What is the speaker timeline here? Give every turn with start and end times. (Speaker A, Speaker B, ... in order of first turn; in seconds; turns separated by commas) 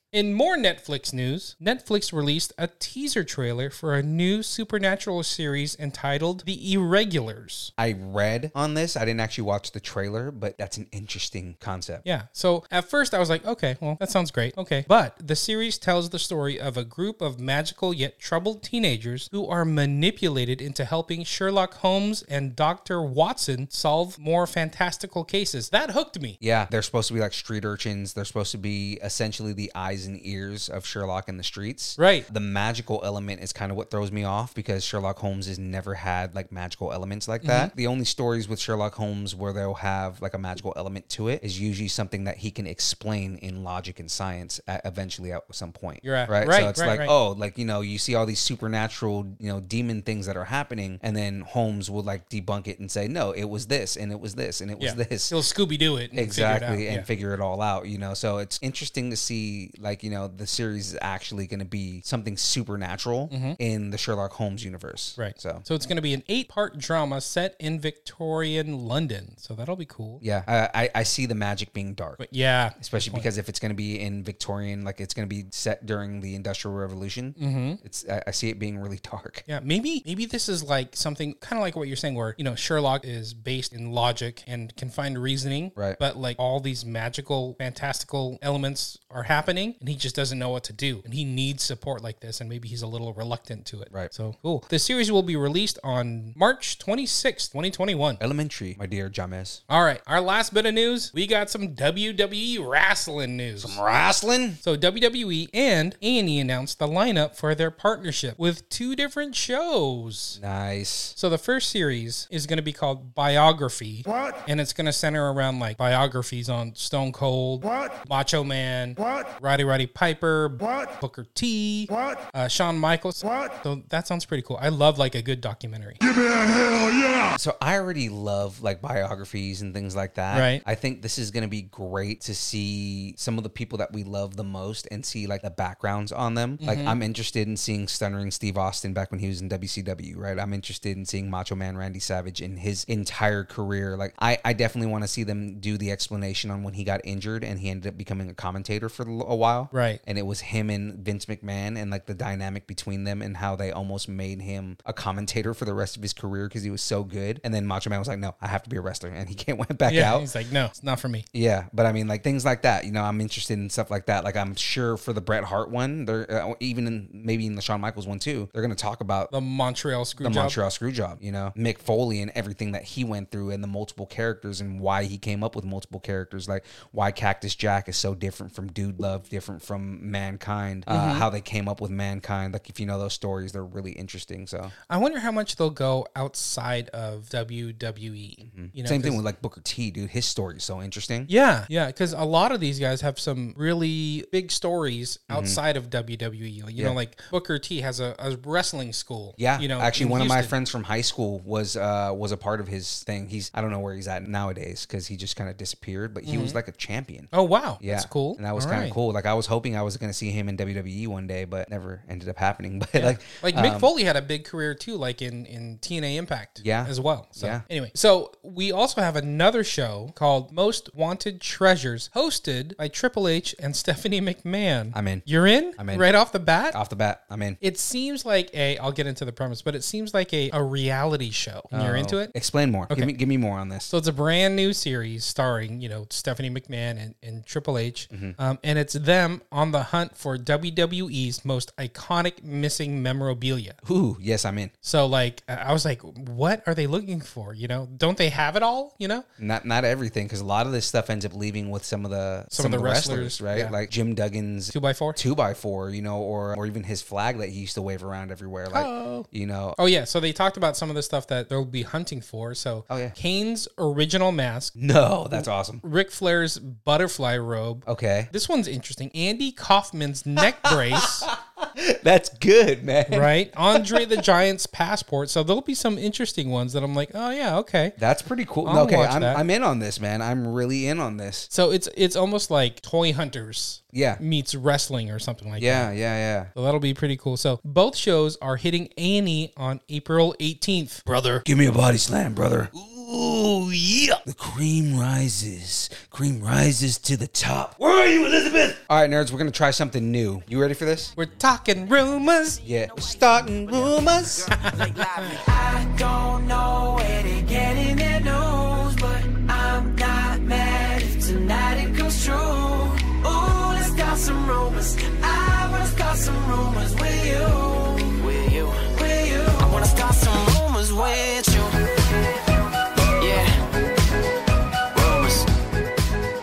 Speaker A: 0.1-7.7, Speaker B: 7.8-12.0, Speaker A: 12.0-26.4, Speaker B: 26.4-55.4, Speaker A: 32.0-32.2, Speaker A: 37.4-37.7, Speaker A: 46.0-47.1, Speaker A: 54.8-57.1, Speaker B: 56.1-65.6, Speaker A: 63.3-63.6, Speaker A: 65.2-70.2, Speaker B: 70.2-72.2, Speaker A: 72.2-73.3, Speaker B: 72.8-79.4, Speaker A: 77.4-77.8, Speaker A: 79.5-98.2, Speaker B: 98.2-99.6, Speaker A: 99.7-103.8, Speaker B: 103.6-104.6, Speaker A: 104.6-110.4, Speaker B: 110.3-111.2, Speaker A: 111.2-126.0, Speaker B: 127.3-160.3, Speaker A: 130.3-130.6, Speaker A: 136.6-137.0, Speaker A: 149.7-150.0, Speaker A: 159.9-161.2, Speaker B: 161.3-169.3, Speaker A: 169.3-170.6, Speaker B: 170.2-184.7, Speaker A: 180.9-181.3, Speaker A: 184.9-189.2, Speaker B: 188.4-191.3, Speaker A: 191.3-200.5, Speaker B: 195.3-195.6, Speaker B: 199.4-213.9, Speaker A: 206.2-206.6, Speaker A: 207.3-209.0, Speaker A: 212.9-226.8, Speaker B: 216.6-217.6, Speaker B: 224.9-226.1, Speaker B: 226.7-227.6, Speaker A: 227.6-232.3, Speaker B: 231.7-233.9, Speaker A: 233.9-243.8, Speaker B: 238.1-238.3, Speaker B: 243.8-244.7, Speaker A: 244.8-249.2, Speaker B: 249.4-259.8, Speaker A: 252.5-253.8, Speaker A: 254.7-255.2, Speaker A: 258.7-264.7, Speaker B: 262.9-263.1, Speaker B: 264.8-265.8, Speaker A: 265.4-271.3, Speaker B: 267.9-268.3, Speaker B: 270.6-274.2, Speaker A: 273.1-277.9, Speaker B: 278.0-281.5, Speaker A: 278.6-279.4, Speaker A: 281.5-285.9, Speaker B: 283.9-284.2, Speaker B: 285.6-286.5, Speaker A: 286.5-291.4, Speaker B: 291.4-301.1, Speaker A: 301.1-302.6, Speaker B: 302.6-304.6, Speaker A: 304.7-305.2, Speaker C: 305.2-321.7, Speaker C: 323.2-323.6, Speaker C: 324.9-325.4